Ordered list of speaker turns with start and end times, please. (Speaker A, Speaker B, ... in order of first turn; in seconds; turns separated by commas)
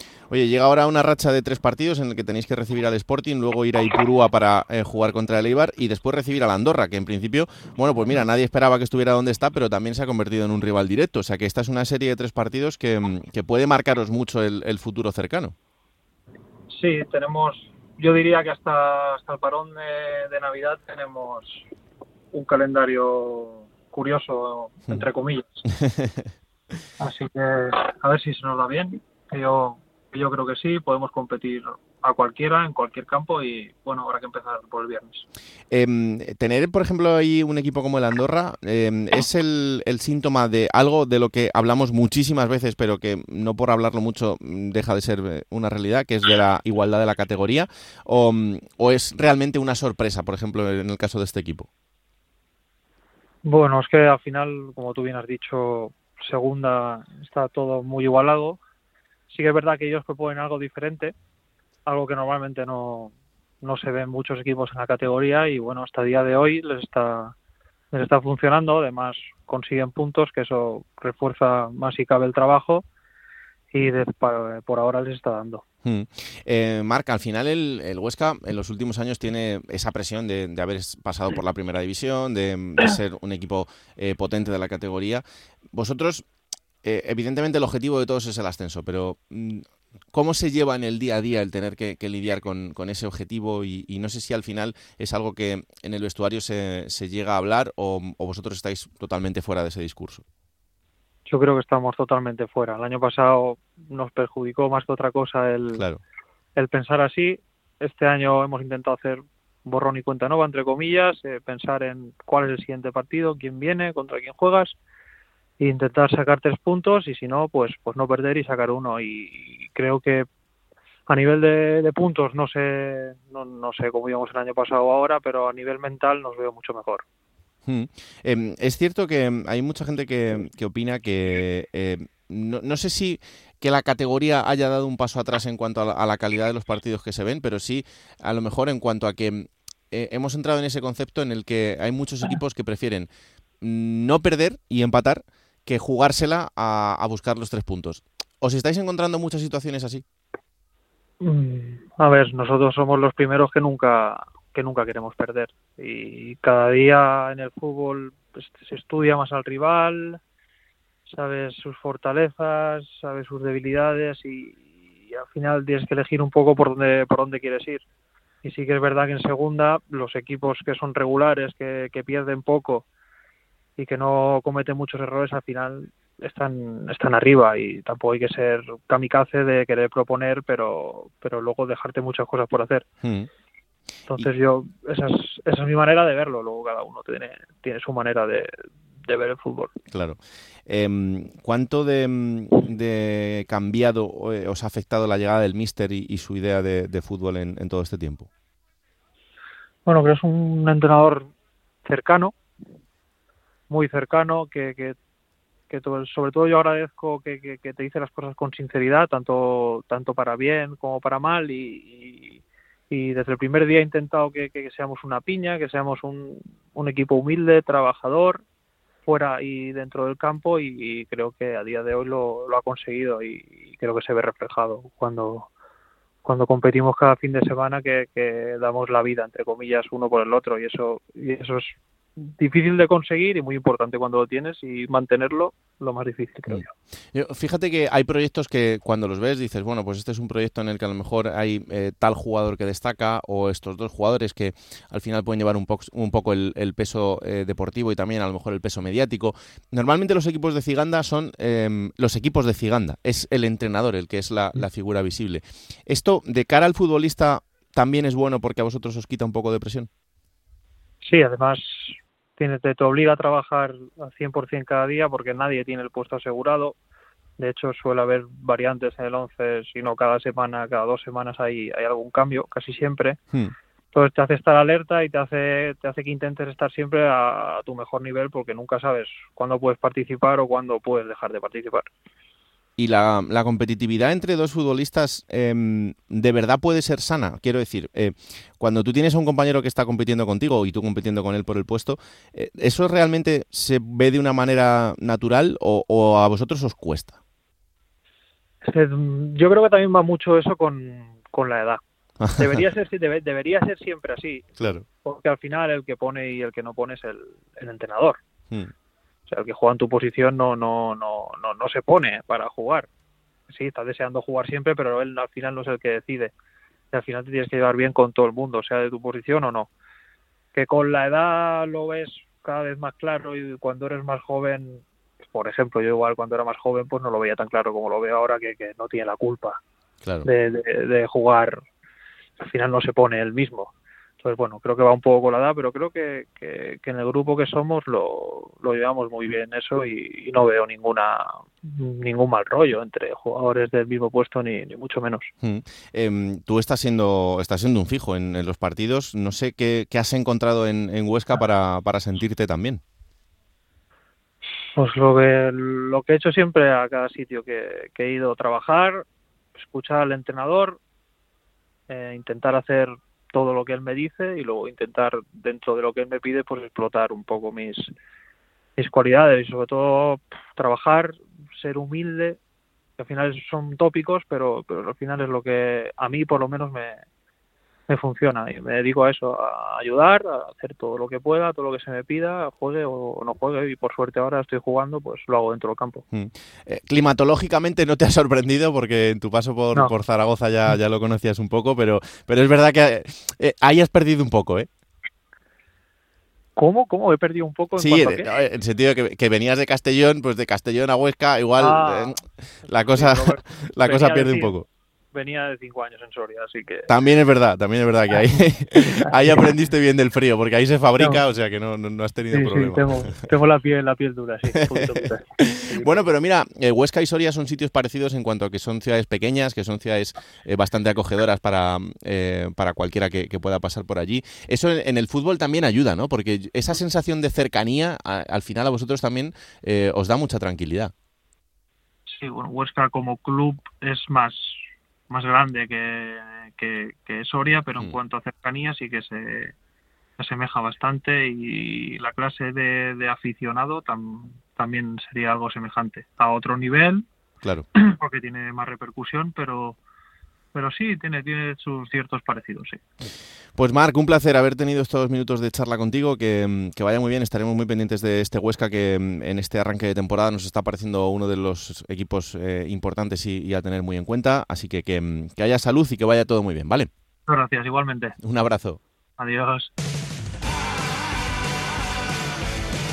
Speaker A: 0.3-15.6, Speaker B: 16.7-21.7, Speaker B: 22.3-25.6, Speaker A: 25.7-26.3, Speaker B: 27.0-35.2, Speaker A: 35.7-51.7, Speaker B: 53.5-58.6, Speaker B: 59.3-61.1, Speaker B: 61.9-67.3, Speaker B: 67.9-72.8, Speaker B: 73.7-75.6, Speaker A: 75.8-86.2, Speaker A: 86.8-100.2, Speaker B: 101.3-105.8, Speaker A: 105.8-106.0, Speaker B: 106.6-114.8, Speaker B: 115.6-120.3, Speaker B: 121.1-127.0, Speaker A: 127.7-143.1, Speaker A: 143.6-150.0, Speaker B: 151.2-160.2, Speaker B: 161.1-167.8, Speaker B: 168.4-172.8, Speaker B: 173.8-182.8, Speaker A: 183.0-183.3, Speaker B: 184.1-189.7, Speaker A: 189.9-198.3, Speaker B: 199.9-201.3, Speaker B: 201.8-202.3, Speaker B: 203.7-205.0, Speaker B: 205.7-218.4, Speaker B: 219.1-225.5, Speaker B: 226.2-236.7, Speaker A: 236.5-259.9, Speaker B: 261.0-266.8, Speaker B: 267.4-273.2, Speaker B: 273.9-281.9, Speaker A: 282.8-297.2, Speaker B: 298.6-301.8, Speaker A: 302.2-302.6, Speaker B: 302.4-304.4, Speaker A: 304.6-304.9, Speaker B: 305.1-308.2, Speaker B: 309.3-312.9, Speaker B: 313.5-316.3, Speaker B: 316.9-319.7, Speaker B: 320.5-329.6, Speaker B: 330.2-331.6, Speaker B: 332.4-333.7, Speaker B: 334.2-345.3, Speaker A: 345.4-352.8, Speaker B: 354.8-360.8, Speaker B: 361.9-367.9, Speaker B: 368.8-372.4, Speaker B: 373.0-377.0, Speaker B: 377.9-386.0, Speaker A: 386.1-394.7, Speaker B: 396.6-398.4, Speaker A: 397.8-404.7, Speaker B: 401.6-402.2, Speaker B: 402.7-404.6, Speaker B: 405.1-406.9, Speaker A: 406.9-413.2, Speaker B: 409.0-409.5, Speaker B: 412.3-416.0, Speaker A: 414.5-430.9, Speaker B: 432.1-439.5, Speaker B: 440.2-447.1, Speaker B: 447.8-449.8, Speaker B: 450.5-452.8, Speaker A: 453.6-466.9, Speaker B: 467.3-468.2, Speaker A: 468.2-468.8, Speaker B: 469.2-469.7